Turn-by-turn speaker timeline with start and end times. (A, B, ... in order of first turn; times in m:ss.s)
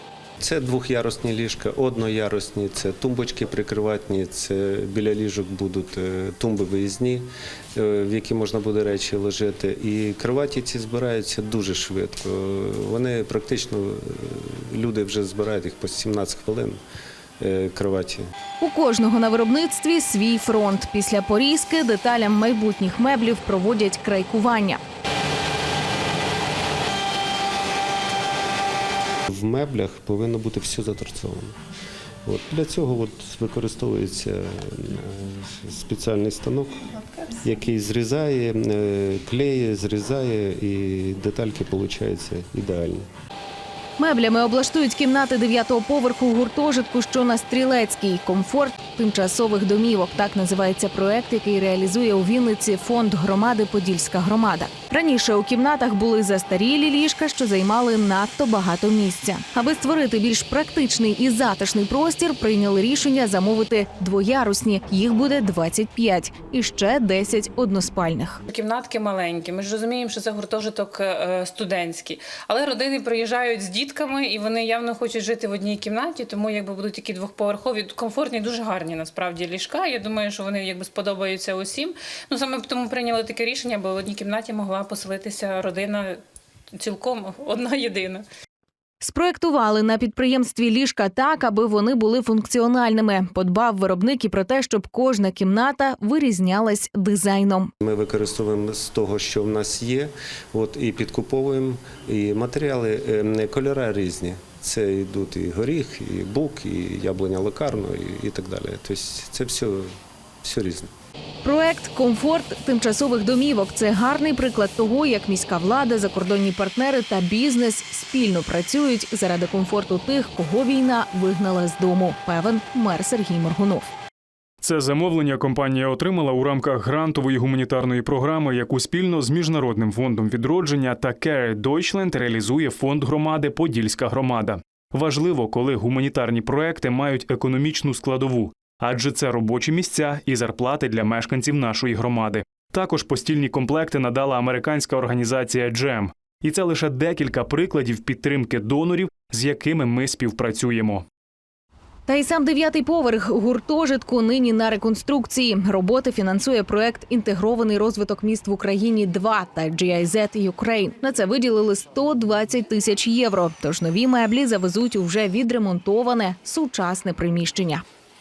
0:00.4-0:16.8 A
0:17.4-0:18.2 A
0:18.6-0:24.8 B
0:29.3-0:31.6 A
0:32.2-0:43.1 A
0:44.0-1:08.4 B
1:08.5-1:26.2 C
1:26.8-1:28.2 C
1:29.0-1:37.7 B
1:37.8-1:49.9 A
1:50.4-1:50.9 A
1:51.4-2:03.9 B
2:04.6-2:31.0 D
2:32.1-2:47.8 B